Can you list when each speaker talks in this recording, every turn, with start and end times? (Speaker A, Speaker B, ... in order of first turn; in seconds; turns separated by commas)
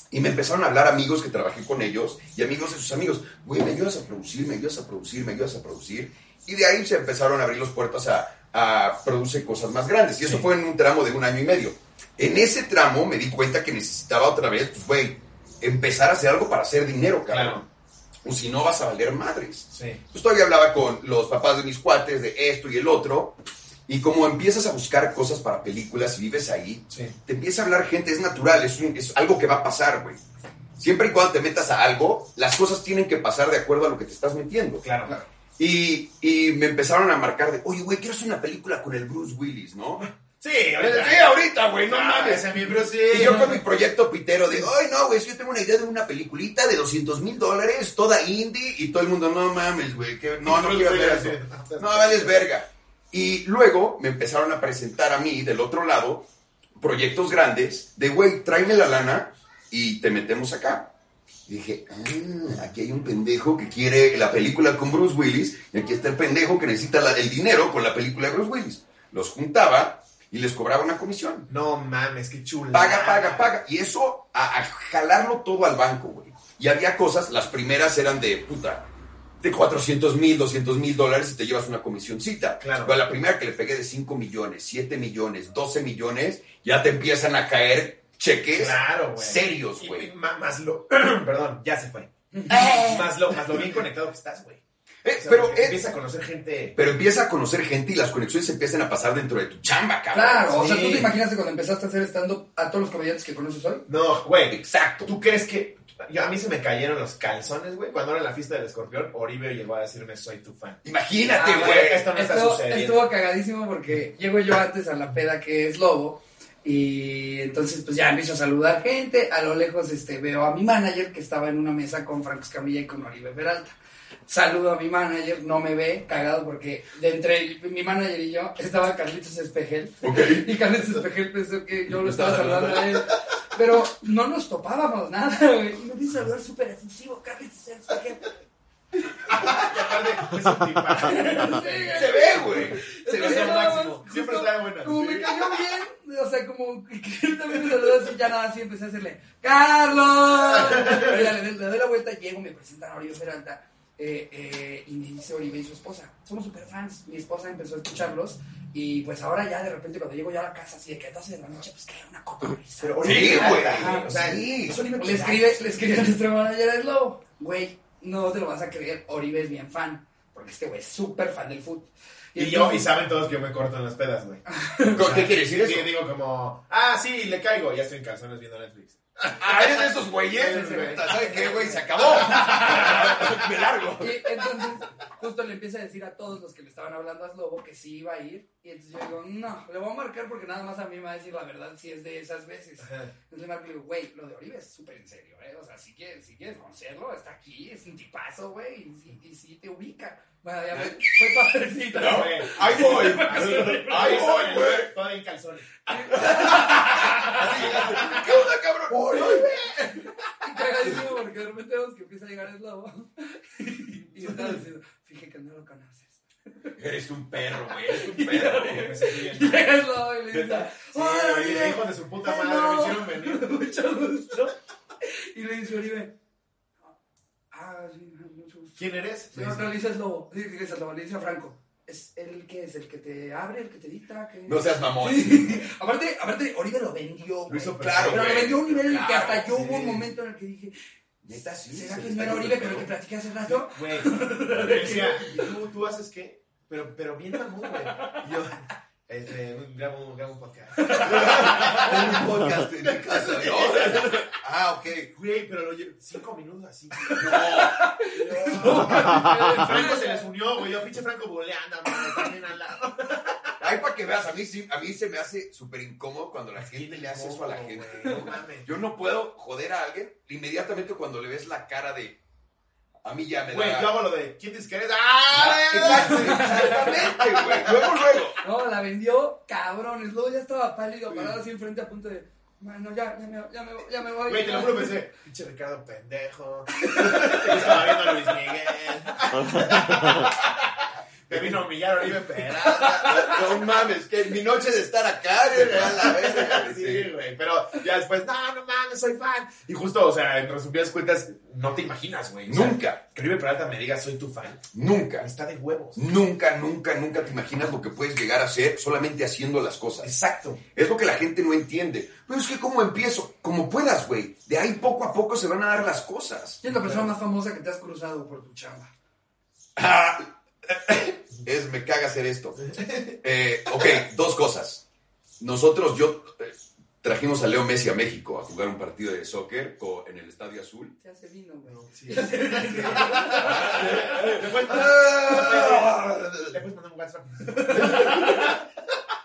Speaker A: 0.1-17.6, Speaker B: 17.3-17.6, Speaker A: 18.2-30.2, Speaker B: 19.7-20.0, Speaker B: 26.9-27.2, Speaker A: 30.8-34.9, Speaker B: 34.8-35.2, Speaker A: 35.6-40.1, Speaker B: 40.0-43.6, Speaker A: 40.8-60.9, Speaker B: 50.4-52.4, Speaker A: 61.5-71.5, Speaker B: 71.5-73.5, Speaker A: 72.7-78.9, Speaker A: 79.4-90.1, Speaker B: 82.6-83.0, Speaker B: 88.5-94.6, Speaker C: 92.3-92.8, Speaker A: 92.5-93.6, Speaker A: 95.0-95.8, Speaker B: 95.2-96.8, Speaker A: 96.8-100.6, Speaker C: 100.1-103.8, Speaker B: 100.5-101.1, Speaker B: 103.9-110.8, Speaker A: 104.5-105.1, Speaker A: 110.8-112.1, Speaker C: 111.3-123.8, Speaker B: 111.4-113.1, Speaker C: 124.3-138.3, Speaker A: 130.0-130.5, Speaker A: 132.0-133.2, Speaker B: 139.3-142.2, Speaker C: 141.1-172.9, Speaker A: 141.9-143.8, Speaker B: 143.1-145.3, Speaker B: 150.7-151.1, Speaker B: 162.8-165.6, Speaker A: 163.0-164.8, Speaker B: 172.4-174.4, Speaker C: 174.5-175.0, Speaker A: 174.9-175.9, Speaker B: 174.9-179.7, Speaker A: 179.4-184.3, Speaker B: 180.3-181.1, Speaker C: 180.6-182.4, Speaker B: 182.3-183.3, Speaker C: 184.0-204.3, Speaker B: 192.8-193.1, Speaker A: 201.9-204.9, Speaker B: 202.0-205.9, Speaker C: 205.9-208.2, Speaker A: 205.9-209.5, Speaker C: 208.9-216.8, Speaker B: 209.4-209.9, Speaker A: 216.8-218.9, Speaker C: 217.8-226.1, Speaker B: 218.6-219.6, Speaker B: 220.4-223.5, Speaker C: 227.5-240.7, Speaker B: 228.8-229.7, Speaker A: 234.5-235.7, Speaker A: 237.5-239.6, Speaker B: 237.7-238.3, Speaker B: 239.5-240.0, Speaker A: 241.2-242.9, Speaker C: 241.7-245.4, Speaker B: 243.4-254.3, Speaker C: 250.8-251.9, Speaker A: 250.9-255.1, Speaker B: 255.1-263.6, Speaker C: 257.1-260.3, Speaker A: 257.1-257.9, Speaker A: 263.6-272.2, Speaker B: 266.6-268.7, Speaker A: 273.0-273.9, Speaker B: 273.5-277.9, Speaker A: 275.3-278.4, Speaker C: 275.9-276.9, Speaker C: 278.4-285.0, Speaker B: 284.3-290.7, Speaker C: 286.8-287.4, Speaker A: 287.4-287.8, Speaker B: 291.3-293.6, Speaker A: 292.8-297.1, Speaker C: 293.1-293.3, Speaker B: 295.5-306.1, Speaker A: 302.5-303.0, Speaker A: 304.7-305.3, Speaker A: 306.0-310.1, Speaker B: 310.0-310.6, Speaker A: 310.7-316.6, Speaker C: 316.6-318.9, Speaker B: 316.7-317.1, Speaker A: 319.8-322.6, Speaker B: 322.6-323.1, Speaker A: 323.2-324.9, Speaker A: 325.4-330.9, Speaker C: 331.0-333.9, Speaker B: 331.7-338.5, Speaker A: 333.3-336.6, Speaker A: 337.8-338.1